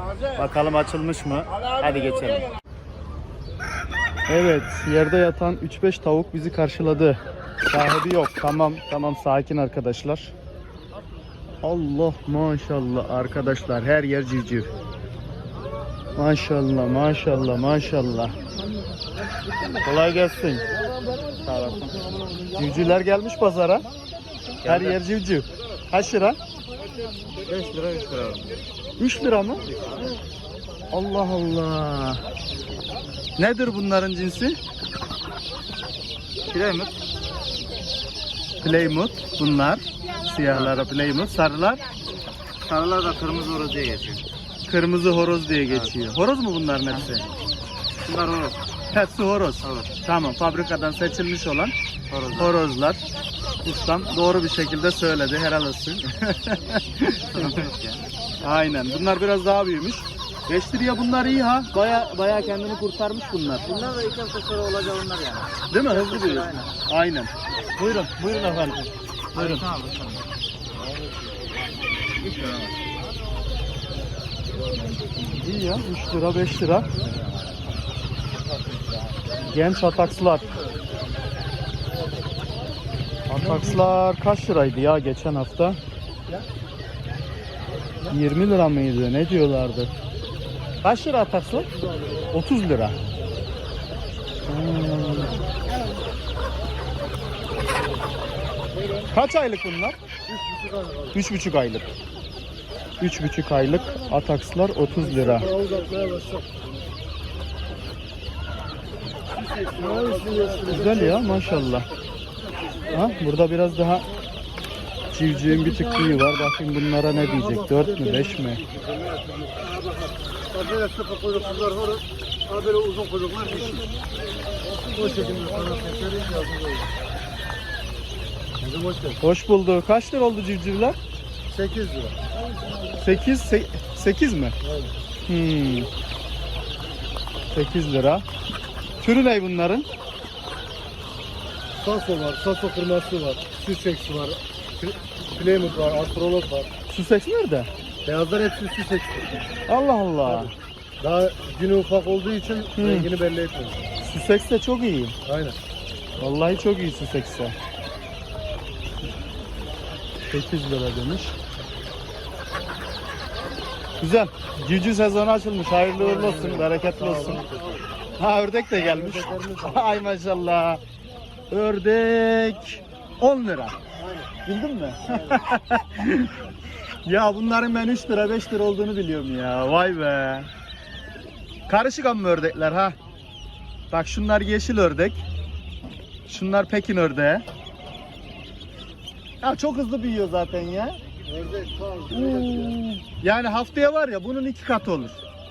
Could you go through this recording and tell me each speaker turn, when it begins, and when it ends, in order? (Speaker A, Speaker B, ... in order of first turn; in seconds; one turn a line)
Speaker A: 0.3-2.5
Speaker A: 4.3-7.2
Speaker A: 7.7-10.3
Speaker A: 11.6-14.7
Speaker A: 16.2-18.3
Speaker A: 19.8-20.6
Speaker B: 21.4-21.9
Speaker A: 22.5-23.9
Speaker A: 24.6-26.4
Speaker B: 24.6-25.0
Speaker B: 27.4-28.5
Speaker A: 29.0-29.6
Speaker A: 30.9-32.2
Speaker A: 33.4-34.6
Speaker B: 36.5-36.9
Speaker A: 38.6-41.8
Speaker B: 42.7-44.2
Speaker A: 44.7-47.3
Speaker B: 48.1-48.5
Speaker A: 48.9-51.8
Speaker B: 52.1-52.5
Speaker A: 52.3-53.0
Speaker A: 53.6-57.6
Speaker B: 57.4-58.0
Speaker A: 58.4-63.7
Speaker B: 63.7-66.7
Speaker A: 65.7-69.7
Speaker B: 69.3-70.2
Speaker A: 75.3-77.0
Speaker A: 79.4-80.5
Speaker A: 83.3-85.8
Speaker A: 88.1-89.9
Speaker A: 90.8-91.7
Speaker A: 92.3-93.0
Speaker A: 94.5-95.3
Speaker A: 99.1-100.0
Speaker C: 100.4-101.1
Speaker A: 101.1-101.9
Speaker A: 103.0-105.5
Speaker C: 105.4-106.4
Speaker C: 109.7-111.2
Speaker A: 110.7-111.9
Speaker A: 112.9-114.1
Speaker A: 115.1-118.6
Speaker C: 120.5-123.8
Speaker C: 124.9-126.8
Speaker C: 128.6-129.2
Speaker A: 129.2-131.0
Speaker C: 131.5-132.2
Speaker A: 133.0-134.6
Speaker A: 135.3-135.9
Speaker A: 137.5-138.2
Speaker A: 139.0-139.8
Speaker C: 141.8-146.7
Speaker A: 146.9-147.7
Speaker C: 148.1-149.3
Speaker A: 149.7-150.5
Speaker C: 151.0-153.8
Speaker A: 152.8-153.1
Speaker A: 154.0-155.2
Speaker C: 155.3-155.6
Speaker A: 156.2-157.5
Speaker A: 160.3-161.3
Speaker A: 164.0-167.4
Speaker C: 166.2-167.8
Speaker A: 168.2-170.8
Speaker C: 168.9-169.7
Speaker A: 171.5-173.8
Speaker A: 174.4-176.3
Speaker A: 177.0-180.5
Speaker A: 181.7-182.9
Speaker A: 183.9-185.2
Speaker A: 186.2-187.4
Speaker A: 189.4-191.0
Speaker C: 191.3-192.6
Speaker A: 192.1-195.2